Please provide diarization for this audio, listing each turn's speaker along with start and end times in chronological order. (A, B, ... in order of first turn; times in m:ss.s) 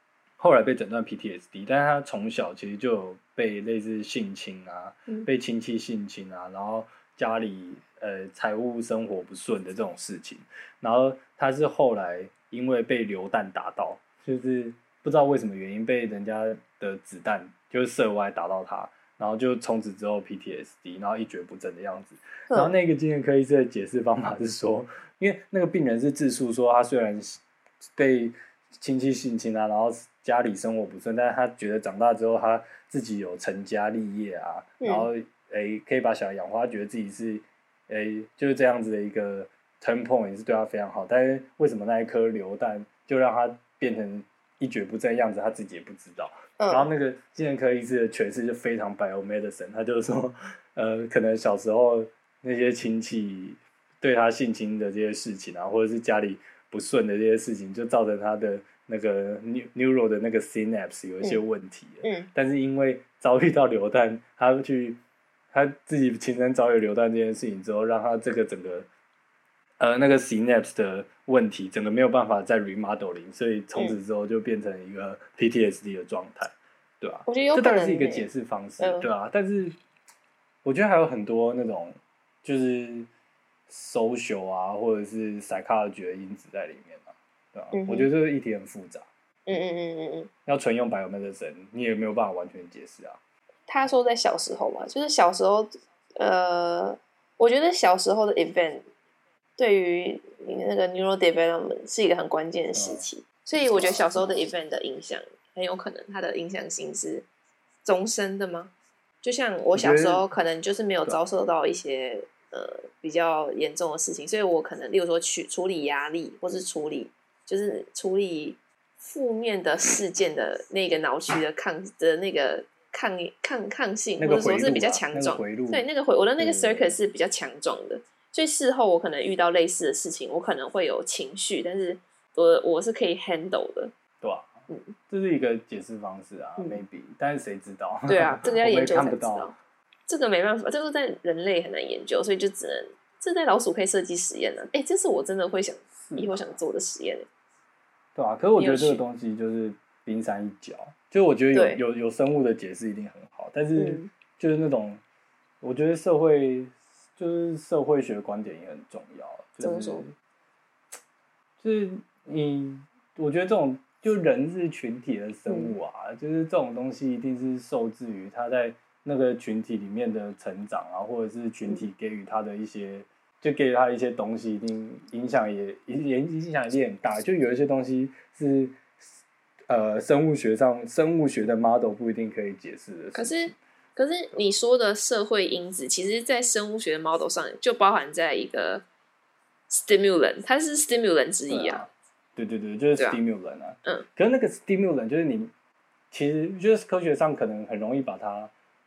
0:00.4-0:27.4 A
0:28.0-1:05.0 A
0:34.8-0:35.1 B
0:46.6-0:46.9 B
1:02.0-1:02.3 B
1:05.5-1:08.9 A
1:09.8-1:19.8 A
1:17.3-1:18.3 B
1:18.8-1:19.1 B
1:20.6-1:23.1 A
1:23.7-1:29.1 A
1:27.7-1:28.1 B
1:29.5-1:30.3 B
1:30.5-1:33.2 A
1:33.7-1:38.9 B
1:39.6-1:47.2 B
1:42.8-1:43.1 A
1:43.7-1:44.4 A
1:47.8-1:48.7 B
1:49.2-2:13.9 B
1:49.8-1:50.3 A
2:04.2-2:05.8 A
2:06.4-2:07.0 A
2:14.2-2:19.6 A
2:14.7-2:15.0 B
2:16.6-2:16.8 B
2:18.1-2:19.6 B
2:20.1-2:27.3 B
2:26.0-2:26.6 A
2:28.2-2:35.0 A
2:28.6-2:29.0 B
2:31.5-2:31.8 B
2:33.8-2:34.1 B
2:35.6-2:40.1 A
2:39.6-2:40.1 B
2:41.6-2:59.0 A
2:45.5-2:45.7 B
2:59.7-3:03.6 A
3:03.1-3:08.8 B
3:09.7-3:11.8 B
3:11.5-3:15.5 A
3:16.1-3:18.5 A